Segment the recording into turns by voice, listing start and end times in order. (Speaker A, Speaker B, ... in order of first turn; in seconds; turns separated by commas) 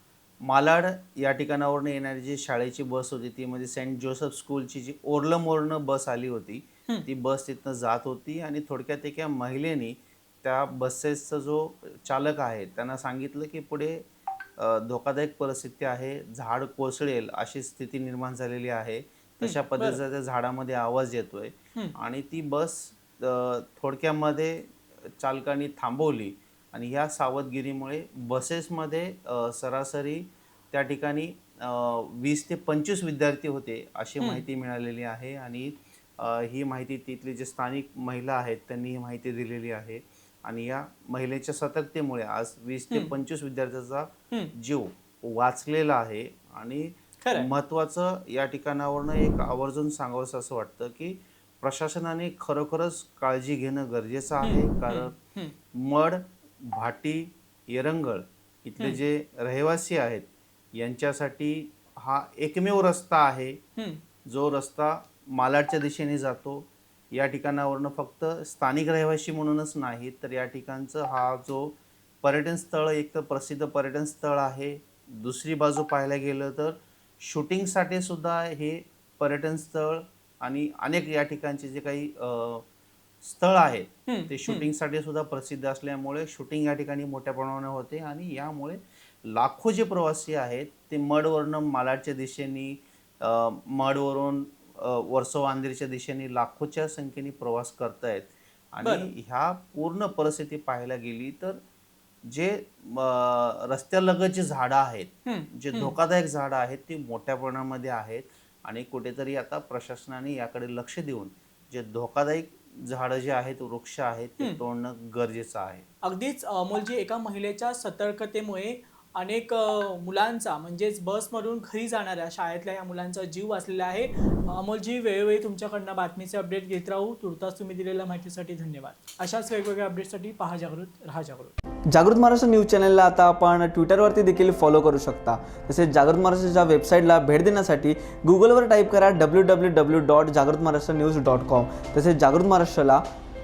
Speaker A: 0.5-14.0, Speaker A: 14.6-55.2, Speaker B: 19.4-20.0, Speaker B: 47.2-47.5, Speaker B: 54.4-55.5, Speaker A: 55.7-63.6, Speaker A: 64.3-82.6, Speaker A: 83.2-101.6, Speaker B: 84.1-84.7, Speaker B: 98.8-99.1, Speaker A: 102.3-115.8, Speaker B: 105.3-106.0, Speaker B: 116.0-131.6, Speaker C: 131.9-143.0